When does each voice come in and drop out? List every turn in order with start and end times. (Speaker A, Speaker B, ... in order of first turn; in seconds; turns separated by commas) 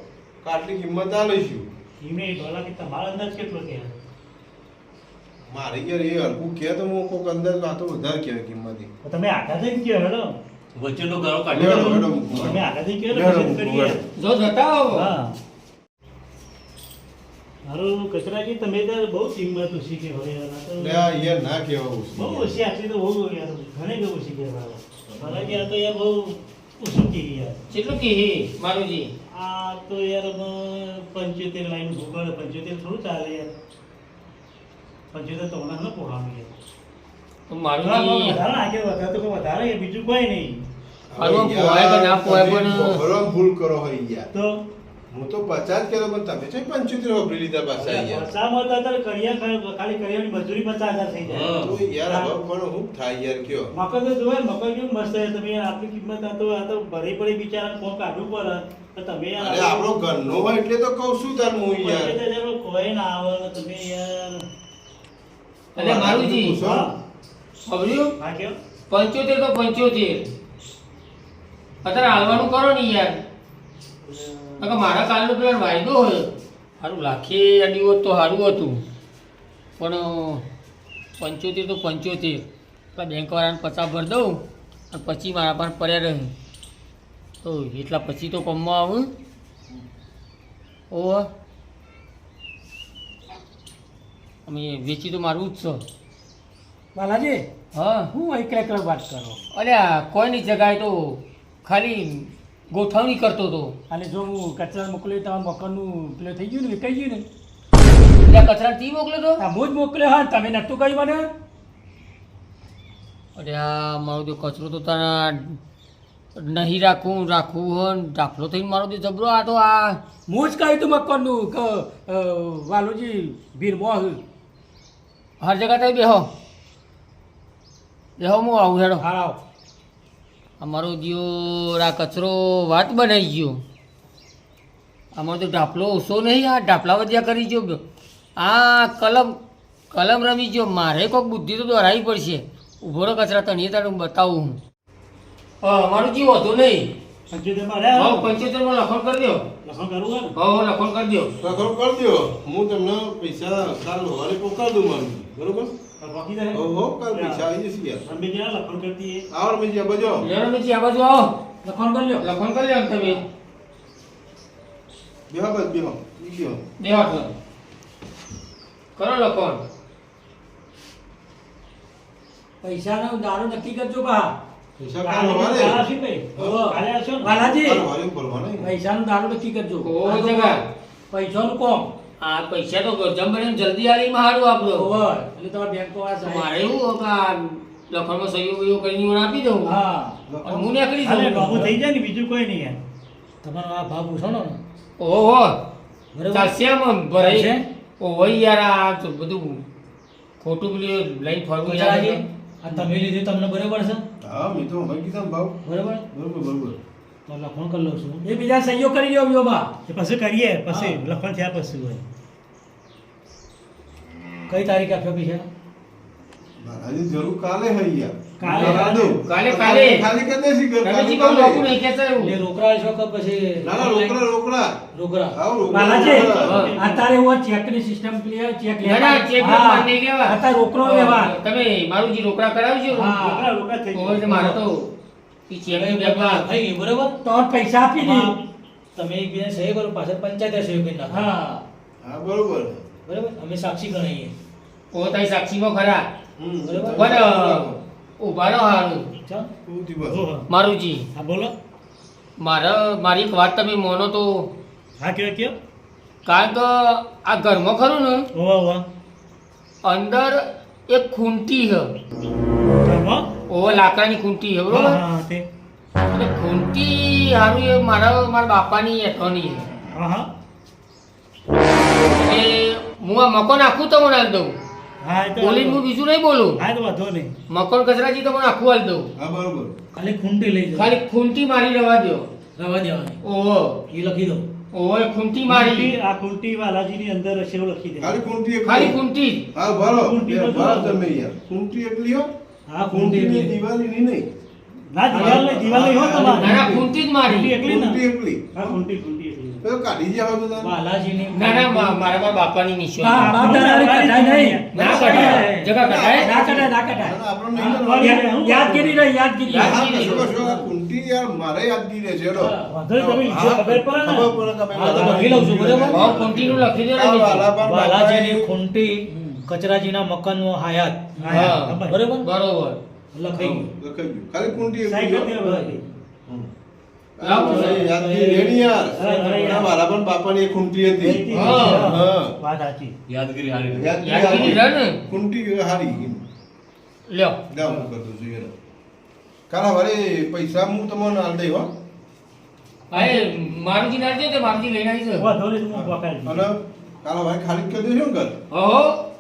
Speaker A: 0.4-1.7, Speaker B: 2.0-4.0, Speaker A: 5.5-8.9, Speaker B: 9.0-10.3, Speaker C: 10.8-12.6, Speaker A: 11.5-14.0, Speaker B: 11.5-14.0, Speaker D: 14.2-15.1, Speaker B: 14.9-15.4, Speaker B: 17.7-21.1, Speaker A: 20.8-22.5, Speaker B: 22.2-27.6, Speaker C: 25.1-25.6, Speaker D: 27.7-29.1, Speaker B: 29.3-33.5, Speaker B: 35.1-36.5, Speaker D: 37.5-38.4, Speaker B: 37.8-40.6, Speaker A: 41.1-44.3, Speaker D: 41.2-43.0, Speaker B: 44.3-44.6, Speaker A: 45.1-48.3, Speaker B: 47.8-52.3, Speaker C: 51.2-51.8, Speaker A: 51.6-53.7, Speaker B: 53.7-60.4, Speaker A: 59.4-62.2, Speaker B: 61.8-64.5, Speaker A: 65.8-66.9, Speaker D: 65.8-66.6, Speaker B: 66.6-66.9, Speaker D: 67.7-68.1, Speaker B: 68.2-68.6, Speaker D: 68.9-70.3, Speaker D: 71.8-73.2, Speaker D: 74.6-76.3, Speaker D: 76.8-78.8, Speaker D: 79.8-80.5, Speaker D: 81.2-86.3, Speaker D: 87.4-89.1, Speaker D: 90.9-91.3, Speaker D: 94.5-95.8, Speaker E: 97.0-97.5, Speaker D: 97.8-98.1, Speaker E: 98.1-99.4, Speaker D: 99.5-103.8, Speaker E: 103.9-107.3, Speaker D: 108.3-109.4, Speaker E: 109.4-111.3, Speaker D: 113.4-115.6, Speaker D: 116.3-120.0, Speaker E: 120.3-124.2, Speaker D: 125.4-126.3, Speaker D: 128.2-129.1, Speaker E: 129.0-129.4, Speaker D: 130.6-133.6, Speaker D: 135.1-137.8, Speaker D: 138.4-139.4, Speaker D: 139.9-144.6, Speaker D: 145.6-146.9, Speaker B: 147.3-148.3, Speaker D: 147.9-149.5, Speaker B: 149.6-150.3, Speaker D: 150.3-151.3, Speaker A: 151.4-155.7, Speaker B: 156.0-157.4, Speaker A: 156.5-158.1, Speaker B: 158.1-159.3, Speaker A: 159.3-160.3, Speaker D: 160.2-161.3, Speaker E: 161.6-162.3, Speaker D: 162.2-163.2, Speaker A: 165.3-166.6, Speaker D: 166.8-167.3, Speaker D: 169.0-169.6, Speaker E: 172.6-174.3, Speaker A: 174.8-175.8, Speaker B: 175.1-177.5, Speaker E: 176.4-177.8, Speaker A: 177.6-178.8, Speaker E: 178.6-181.9, Speaker D: 179.8-180.6, Speaker D: 182.2-184.9, Speaker E: 184.7-186.5, Speaker D: 186.2-189.8, Speaker E: 189.7-190.2, Speaker A: 190.3-190.7, Speaker D: 190.4-191.7, Speaker B: 191.0-192.8, Speaker E: 191.4-191.7, Speaker E: 193.4-194.6, Speaker D: 195.0-195.6, Speaker E: 196.1-196.5, Speaker D: 196.3-199.6, Speaker E: 197.2-197.6, Speaker D: 200.4-202.2, Speaker E: 201.6-204.0, Speaker A: 204.2-205.6, Speaker E: 205.7-206.0, Speaker A: 206.1-206.8, Speaker B: 207.3-208.2, Speaker E: 208.2-209.7, Speaker B: 209.9-212.1, Speaker E: 210.7-211.0, Speaker E: 214.5-215.5, Speaker A: 216.6-221.7, Speaker B: 218.4-219.2, Speaker E: 218.4-218.9, Speaker D: 219.3-220.1, Speaker D: 220.8-222.3, Speaker E: 222.2-224.2, Speaker A: 223.6-224.8, Speaker E: 224.9-231.3, Speaker A: 225.3-226.7, Speaker B: 225.7-227.1, Speaker D: 226.4-226.8, Speaker D: 228.8-233.2, Speaker E: 232.9-233.5, Speaker B: 233.2-234.6, Speaker D: 233.9-234.9, Speaker D: 235.5-236.4, Speaker E: 235.7-238.4, Speaker C: 236.5-236.8, Speaker E: 239.0-241.6, Speaker C: 241.0-241.3, Speaker A: 242.0-242.9, Speaker E: 243.1-244.3, Speaker D: 244.9-246.1, Speaker A: 246.4-247.8, Speaker E: 246.7-247.1, Speaker D: 246.9-247.7, Speaker D: 248.2-249.1, Speaker A: 249.7-250.3, Speaker B: 250.1-250.5, Speaker D: 250.5-251.1, Speaker B: 251.1-251.5, Speaker D: 252.4-254.5, Speaker B: 255.0-255.6, Speaker D: 256.2-258.3, Speaker B: 258.3-258.9, Speaker D: 259.8-261.9, Speaker B: 262.8-263.3, Speaker D: 263.5-265.0, Speaker B: 264.7-265.5, Speaker D: 266.1-269.7, Speaker B: 269.9-270.3, Speaker D: 272.1-274.6, Speaker B: 275.0-275.8, Speaker D: 275.4-276.6, Speaker B: 276.6-277.3, Speaker D: 277.5-279.1, Speaker A: 279.2-279.8, Speaker E: 279.9-280.9, Speaker D: 280.7-282.3, Speaker E: 282.6-283.2, Speaker D: 283.2-283.8, Speaker E: 283.9-284.5, Speaker D: 284.7-286.0, Speaker B: 285.5-288.2, Speaker A: 288.0-289.0, Speaker D: 288.6-289.5, Speaker A: 289.5-292.3, Speaker B: 290.0-291.1, Speaker E: 292.7-293.5, Speaker A: 292.8-294.3, Speaker B: 294.9-298.0, Speaker E: 295.1-296.4, Speaker A: 295.1-296.9, Speaker D: 296.2-297.6, Speaker A: 297.6-298.8, Speaker B: 298.6-299.6, Speaker A: 299.6-300.8, Speaker E: 300.6-301.9, Speaker D: 301.3-303.6, Speaker E: 303.0-305.5, Speaker B: 303.2-305.7, Speaker D: 304.7-306.3, Speaker A: 305.8-308.2, Speaker E: 306.2-310.6, Speaker B: 307.6-309.0, Speaker D: 309.5-310.3, Speaker A: 309.5-318.5, Speaker E: 312.3-312.7, Speaker B: 312.7-315.4, Speaker E: 313.4-316.4, Speaker D: 315.9-317.5, Speaker E: 317.7-322.3, Speaker B: 321.2-322.1, Speaker D: 321.3-322.8, Speaker E: 323.1-323.7, Speaker A: 323.4-325.4, Speaker B: 324.8-325.9, Speaker E: 325.4-325.8, Speaker A: 327.2-332.4, Speaker D: 327.2-327.9, Speaker E: 327.4-329.7, Speaker B: 328.9-329.7, Speaker B: 330.9-332.9, Speaker D: 331.3-332.0, Speaker C: 333.1-334.2, Speaker A: 333.7-336.2, Speaker D: 334.0-335.0, Speaker D: 337.1-337.4, Speaker A: 337.5-338.5, Speaker A: 339.5-341.7, Speaker D: 342.9-345.3, Speaker B: 345.2-346.5, Speaker A: 345.7-348.4, Speaker D: 348.5-349.1